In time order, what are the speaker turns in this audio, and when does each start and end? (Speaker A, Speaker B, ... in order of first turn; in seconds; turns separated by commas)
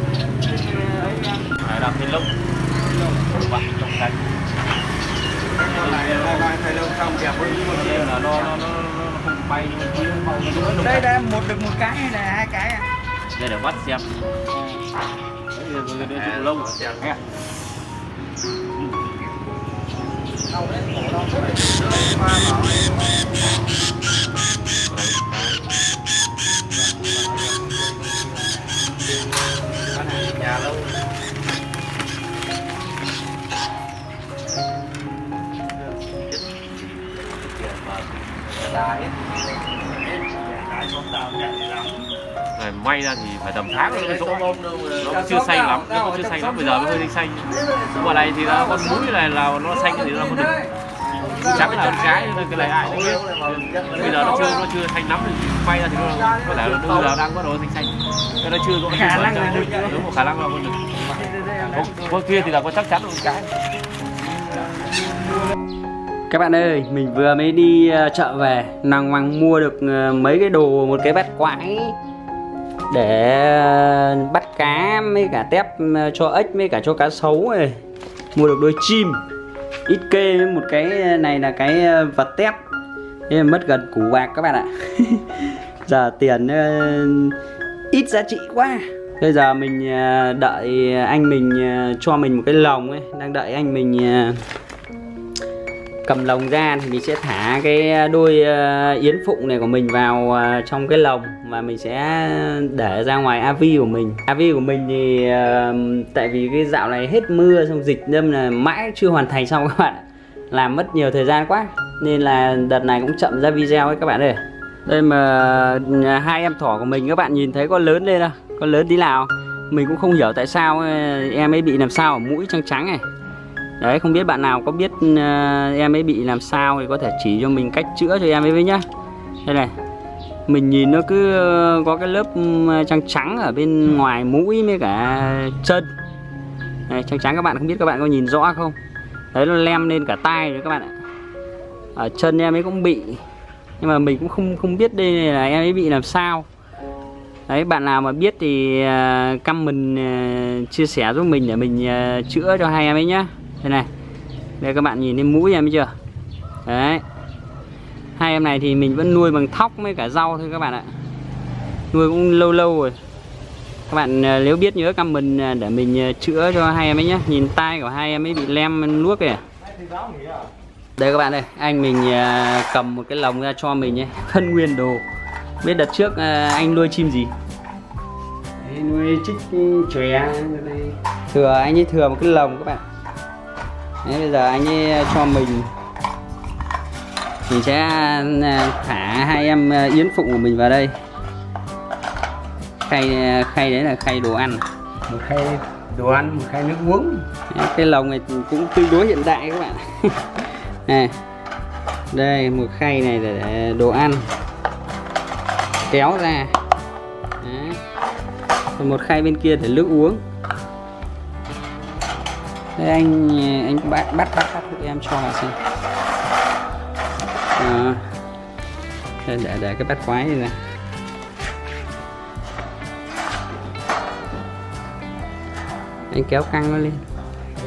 Speaker A: 0.5-1.4, Speaker B: 1.5-2.3, Speaker B: 3.1-4.2, Speaker B: 5.6-11.1, Speaker C: 6.7-7.5, Speaker A: 10.7-12.9, Speaker B: 13.3-14.1, Speaker B: 15.5-17.2, Speaker C: 20.7-22.7, Speaker B: 24.9-25.6, Speaker C: 30.0-30.8, Speaker B: 37.6-38.1, Speaker C: 38.7-39.1, Speaker C: 40.5-41.9, Speaker B: 42.6-50.5, Speaker A: 45.0-47.0, Speaker A: 49.9-50.7, Speaker B: 51.2-63.5, Speaker A: 51.2-52.1, Speaker A: 54.0-54.6, Speaker A: 58.9-60.1, Speaker A: 61.3-61.8, Speaker A: 66.3-72.0, Speaker A: 72.9-77.8, Speaker A: 78.3-79.2, Speaker A: 79.9-82.6, Speaker A: 83.3-87.4, Speaker A: 87.9-94.5, Speaker A: 96.0-123.0, Speaker A: 123.8-128.8, Speaker A: 129.4-129.7, Speaker A: 130.5-135.9, Speaker A: 136.9-138.8, Speaker A: 139.3-140.9, Speaker A: 141.9-143.2, Speaker A: 143.8-146.5, Speaker A: 147.5-153.9, Speaker A: 154.6-155.9, Speaker A: 156.7-157.0, Speaker A: 158.2-160.9, Speaker A: 161.9-163.0, Speaker A: 163.9-169.4, Speaker C: 169.9-170.3, Speaker A: 171.0-175.0, Speaker A: 175.6-177.3, Speaker A: 178.6-182.8, Speaker A: 184.0-185.7, Speaker A: 187.5-190.9, Speaker A: 192.8-201.2, Speaker A: 202.1-204.3, Speaker A: 205.9-206.6, Speaker A: 207.4-207.8, Speaker A: 208.8-210.2, Speaker A: 212.8-215.6, Speaker A: 217.6-218.1, Speaker A: 219.2-220.6, Speaker A: 226.1-227.0